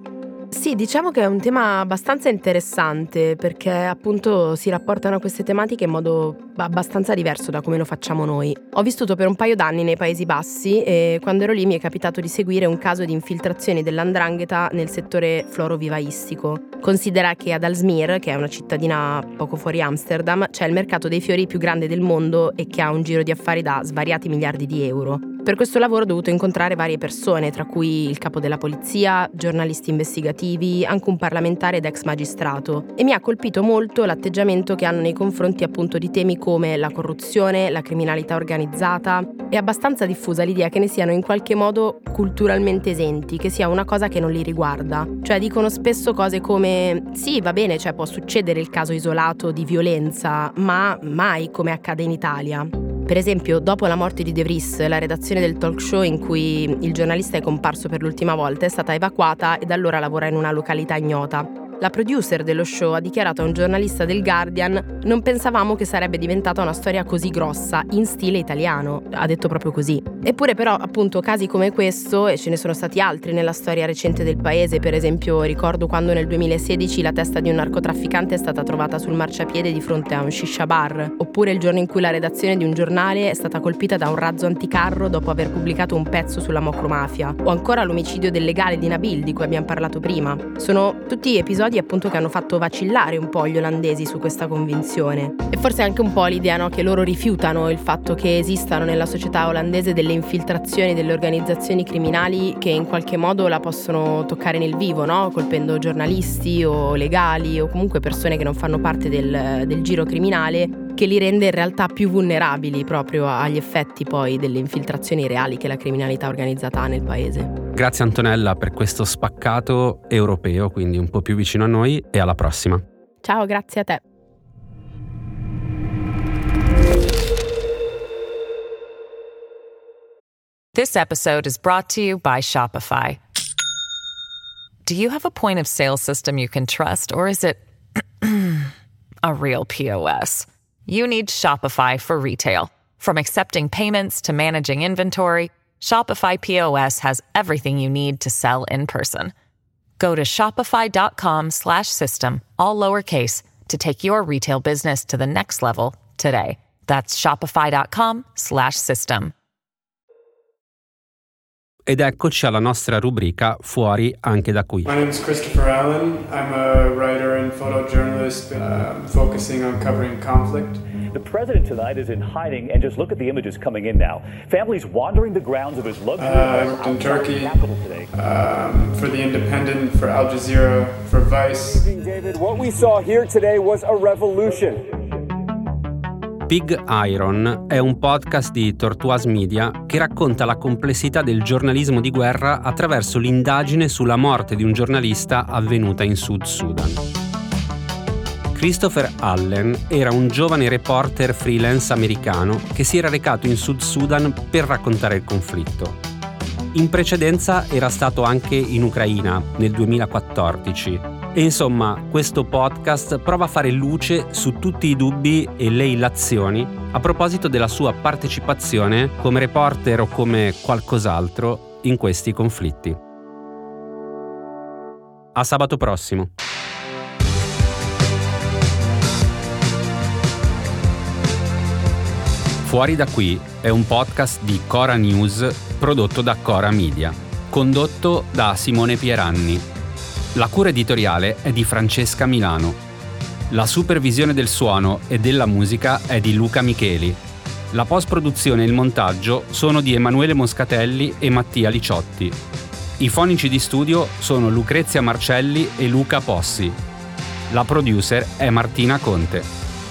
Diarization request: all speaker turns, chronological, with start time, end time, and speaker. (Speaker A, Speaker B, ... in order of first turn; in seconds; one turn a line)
Speaker A: 0.5-117.5
Speaker B: 117.7-122.8
Speaker A: 123.2-124.0
Speaker C: 130.7-133.2
Speaker C: 134.8-138.7
Speaker C: 139.2-149.3
Speaker C: 150.0-159.3
Speaker B: 161.9-164.9
Speaker D: 164.8-170.8
Speaker E: 171.1-178.1
Speaker D: 176.2-177.6
Speaker D: 178.1-181.9
Speaker F: 181.8-184.9
Speaker B: 186.5-197.0
Speaker B: 198.5-206.0
Speaker B: 206.7-223.0
Speaker B: 225.3-226.3
Speaker B: 232.6-239.7
Speaker B: 240.3-242.8
Speaker B: 243.5-247.2
Speaker B: 247.7-252.4
Speaker B: 253.0-256.8
Speaker B: 257.5-259.5